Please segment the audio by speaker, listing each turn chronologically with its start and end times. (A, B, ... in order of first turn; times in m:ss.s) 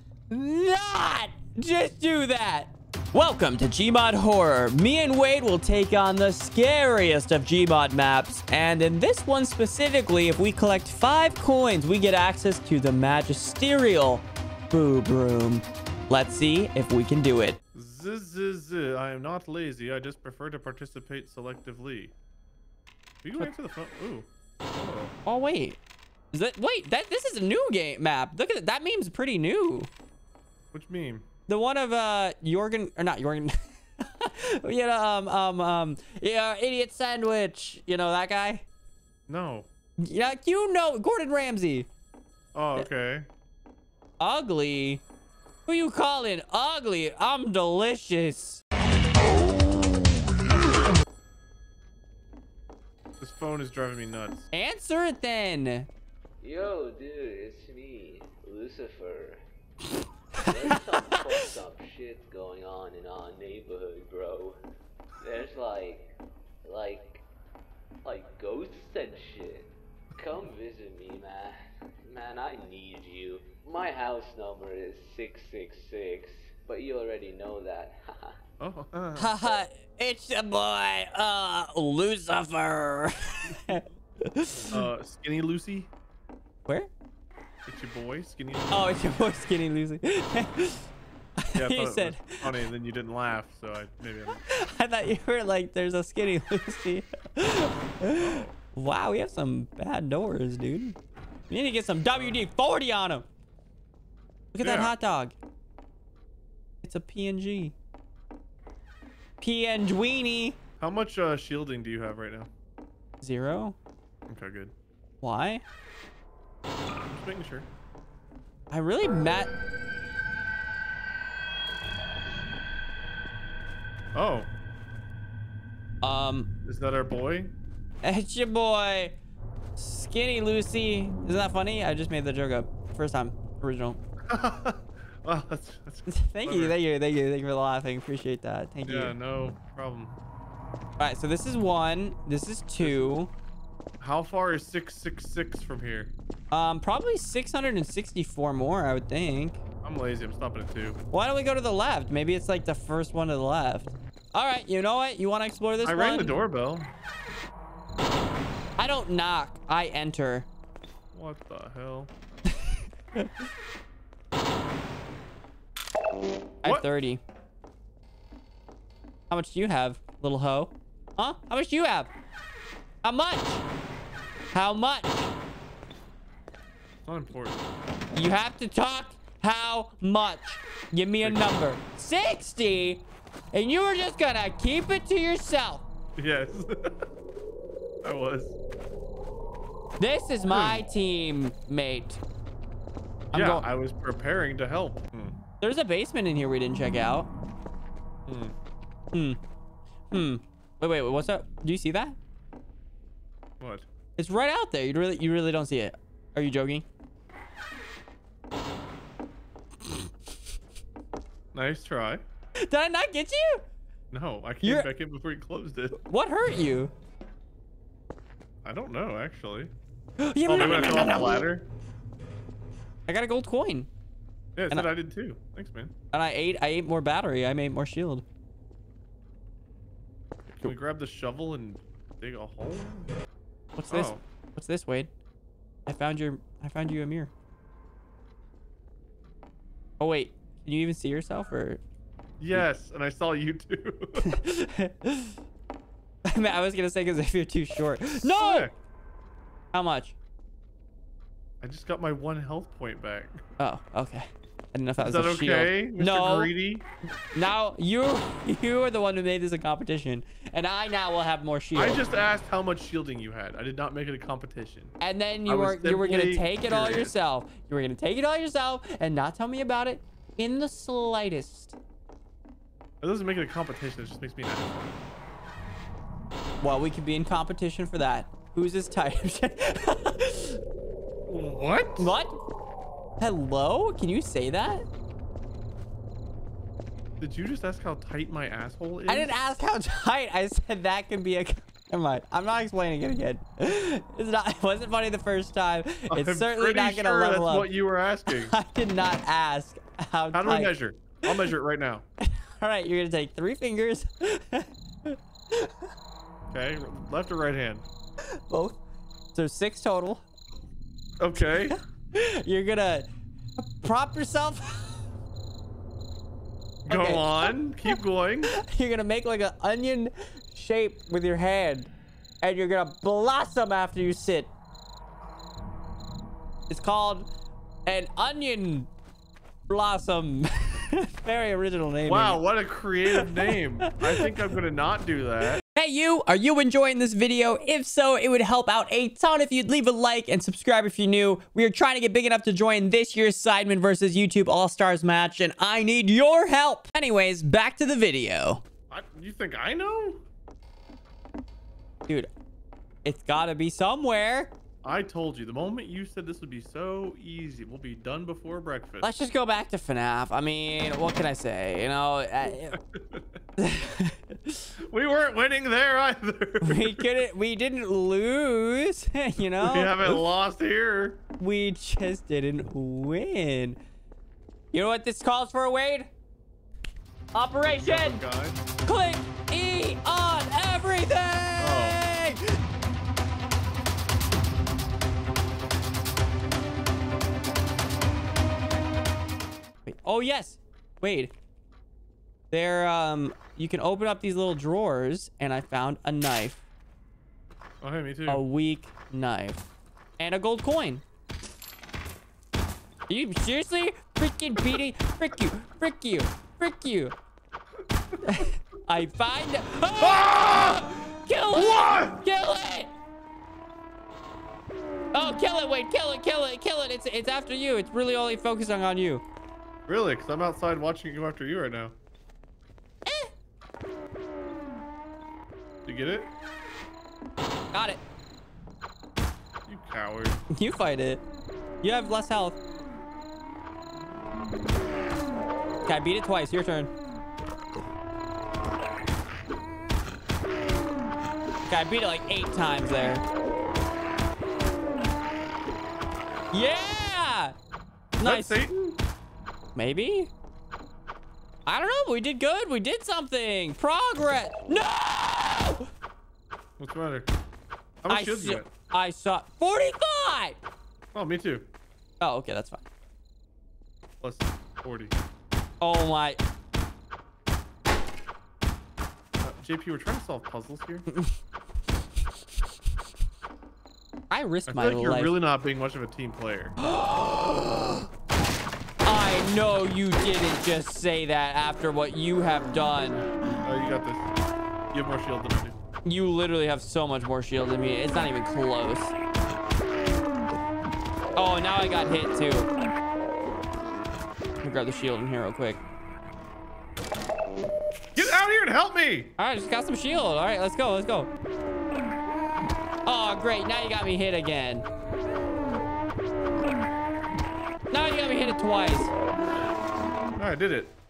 0:00.3-0:17.6 A
0:17.7-0:22.1 B
0:23.2-0:25.1 B
0:25.3-0:25.8 A
0:26.3-0:29.9 A
0:30.7-0:31.3 B
0:31.5-0:38.6 A
0:39.3-0:39.7 B
0:40.0-0:41.9 A
0:42.5-0:43.3 B
0:44.2-0:45.0 A
0:45.7-0:48.6 A
0:53.2-0:54.5 B
0:54.5-0:55.9 A
0:56.4-0:59.4 C
1:00.4-1:01.2 A
1:00.4-1:04.6 C
1:05.2-1:06.1 C
1:06.6-1:07.2 C
1:08.0-1:11.6 C
1:12.1-1:18.4 C
1:18.6-1:19.3 B
1:19.2-1:24.8 A
1:24.7-1:25.9 B
1:27.7-1:29.1 B
1:28.7-1:32.5 A
1:31.6-1:34.4 B
1:34.4-1:41.0 A
1:38.1-1:38.6 B
1:41.5-1:43.3 A
1:42.1-1:42.4 B
1:44.5-1:45.4 A
1:44.6-1:44.9 B
1:46.8-1:47.8 A
1:49.4-1:50.6 A
1:50.8-1:52.5 B
1:53.2-1:53.8 A
1:54.3-1:54.7 B
1:55.2-1:55.6 A
1:57.1-1:57.7 B
1:58.7-1:59.5 A
2:04.2-2:04.5 B
2:06.0-2:06.5 A
2:06.6-2:07.6 B
2:08.0-2:09.2 A
2:09.8-2:14.0 A
2:14.3-2:16.8 B
2:16.1-2:19.2 A
2:18.8-2:20.1 B
2:21.0-2:23.3 A
2:22.8-2:23.2 B
2:24.0-2:26.1 B
2:26.5-2:29.6 A
2:29.8-2:31.0 B
2:31.1-2:36.4 A
2:35.8-2:36.9 B
2:38.8-2:40.5 A
2:41.1-2:42.1 B
2:42.7-2:43.3 A
2:46.6-2:47.2 A
2:49.3-2:52.1 A
2:53.0-2:53.6 A
2:54.5-2:55.3 A
2:57.1-2:57.7 B
2:58.2-3:05.8 A
3:01.2-3:01.6 B
3:06.2-3:07.0 B
3:08.0-3:08.6 B
3:10.0-3:12.2 A
3:10.5-3:10.8 B
3:13.3-3:15.4 B
3:13.3-3:13.7 A
3:15.6-3:17.3 A
3:18.3-3:18.6 B
3:19.1-3:19.4 A
3:20.1-3:22.2 A
3:23.6-3:23.9 B
3:24.2-3:26.9 A
3:31.5-3:32.2 B
3:32.6-3:33.6 A
3:34.1-3:36.0 B
3:34.6-3:34.9 A
3:36.0-3:36.9 A
3:38.6-3:39.7 B
3:40.2-3:41.5 A
3:40.4-3:41.7 B
3:43.1-3:43.9 A
3:44.6-3:45.9 B
3:46.1-3:48.2 A
3:50.5-3:53.1 B
3:53.8-3:55.1 A
3:53.9-3:54.2 B
3:55.9-3:57.3 A
4:00.0-4:01.8 A
4:02.4-4:04.4 B
4:04.2-4:05.4 A
4:06.3-4:08.7 A
4:08.2-4:08.7 B
4:09.7-4:10.2 A
4:11.6-4:13.4 B
4:13.6-4:16.5 A
4:15.0-4:16.9 B
4:17.3-4:22.0 A
4:21.8-4:25.0 B
4:25.0-4:31.8 A
4:25.5-4:27.1 B
4:33.0-4:35.0 B
4:36.6-4:40.6 A
4:41.3-4:42.1 B
4:42.0-4:42.3 A
4:43.2-4:44.8 A
4:47.2-4:49.3 B
4:49.1-4:57.7 A
4:56.1-4:58.6 B
4:58.3-5:00.8 A
5:00.3-5:02.0 B
5:02.2-5:05.9 A
5:06.5-5:07.9 B
5:08.3-5:08.8 A
5:09.3-5:10.2 A
5:11.2-5:11.8 B
5:11.4-5:15.1 A
5:16.9-5:18.5 B
5:16.9-5:21.9 A
5:22.4-5:24.5 A
5:26.7-5:27.3 A
5:27.9-5:28.9 A
5:29.7-5:32.4 A
5:32.0-5:35.6 B
5:33.1-5:34.4 A
5:35.7-5:48.6 A
5:48.9-5:50.2 B
5:53.0-5:54.5 A
5:54.8-5:59.1 B
5:59.0-6:02.8 A
6:02.7-6:03.2 B
6:03.6-6:04.7 A
6:04.8-6:07.2 B
6:06.6-6:10.2 A
6:09.4-6:11.2 B
6:11.4-6:13.8 A
6:14.7-6:16.1 A
6:17.3-6:18.2 A
6:17.8-6:18.6 B
6:18.8-6:22.6 A
6:21.6-6:22.0 B
6:29.9-6:31.3 A
6:32.5-6:36.6 A
6:37.8-6:38.4 B
6:38.3-6:39.6 A
6:40.2-6:41.0 A
6:43.1-6:47.2 A
6:48.3-6:52.9 A
6:50.0-6:50.9 B
6:51.5-6:52.2 B
6:55.1-6:59.2 A
6:59.9-7:02.0 B
7:03.1-7:03.3 A
7:05.8-7:06.3 B
7:07.7-7:08.0 A
7:09.7-7:10.4 B
7:10.5-7:11.2 A
7:11.8-7:12.6 A
7:15.8-7:16.9 A
7:21.7-7:23.2 A
7:26.5-7:27.6 A
7:28.2-7:28.7 A
7:28.2-7:29.0 B
7:29.8-7:30.3 A
7:31.7-7:35.9 A
7:36.8-7:37.3 B
7:38.0-7:38.7 B
7:38.1-7:40.6 A
7:41.1-7:41.7 B
7:42.2-7:42.8 A
7:44.2-7:45.2 B
7:45.8-7:46.4 A
7:49.4-7:51.1 B
7:51.1-7:51.4 A
7:54.3-7:55.4 A
7:54.7-7:56.8 B
7:56.8-7:58.1 A
7:59.0-8:03.3 A
8:03.6-8:04.3 B
8:04.9-8:05.8 B
8:06.0-8:09.1 A
8:11.4-8:12.7 A
8:14.6-8:15.8 A
8:18.2-8:19.3 B
8:19.4-8:21.3 A
8:23.0-8:24.8 A
8:27.9-8:29.1 A
8:30.4-8:31.0 B